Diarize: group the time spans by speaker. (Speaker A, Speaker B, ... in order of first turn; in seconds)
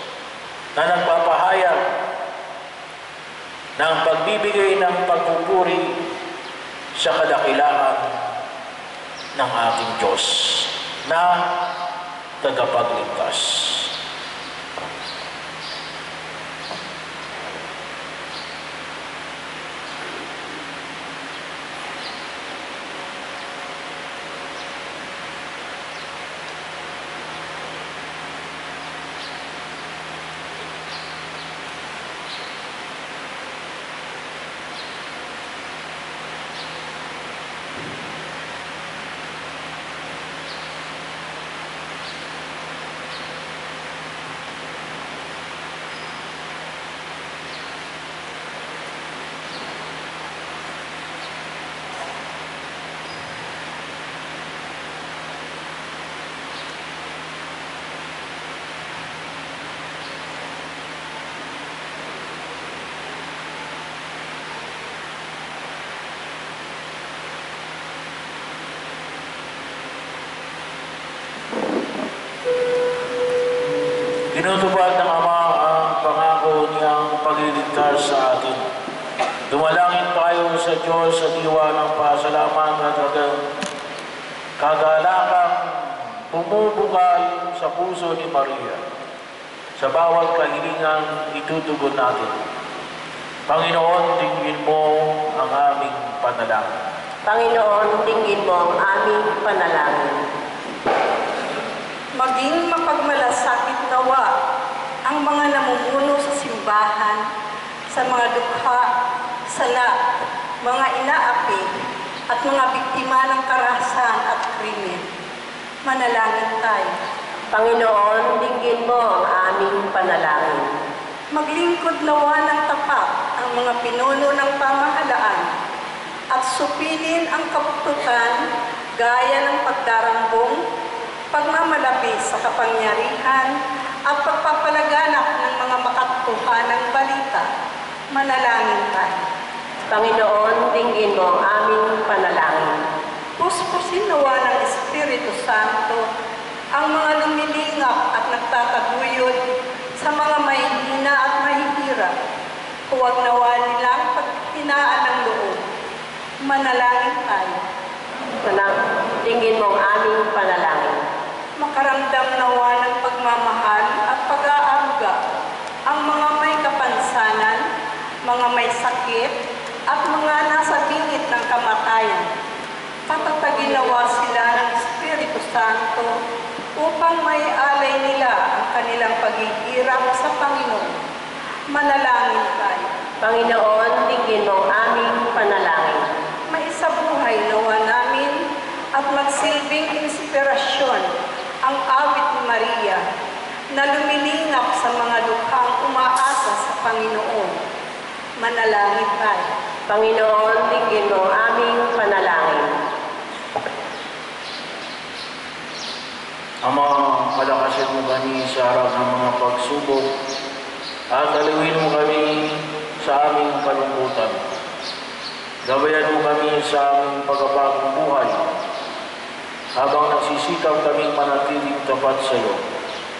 Speaker A: 0.8-1.8, 3.8-5.9, 7.0-8.1, 9.3-11.5, 12.4-13.9, 74.3-78.7, 79.5-83.4, 84.6-88.8, 89.8-92.3, 93.5-96.8, 206.7-210.1, 211.1-214.4, 215.7-218.5, 219.8-222.6
Speaker B: 97.2-100.2, 117.5-120.7, 139.9-142.8, 158.4-161.0, 183.2-186.1, 199.9-202.7
Speaker C: 102.2-104.3, 105.1-107.2, 107.9-108.9, 109.5-109.9, 110.6-111.8, 112.3-115.1, 115.8-117.0, 121.3-125.5, 126.3-128.4, 129.0-130.6, 131.3-133.5, 134.1-137.4, 138.1-139.3, 143.4-146.0, 146.7-149.4, 150.0-152.1, 152.9-155.6, 156.4-157.6, 161.6-165.2, 165.9-167.6, 168.2-169.3, 169.9-172.3, 173.1-176.1, 176.8-180.9, 181.7-182.9, 186.5-188.3, 188.9-191.1, 191.6-193.0, 193.7-197.6, 198.4-199.5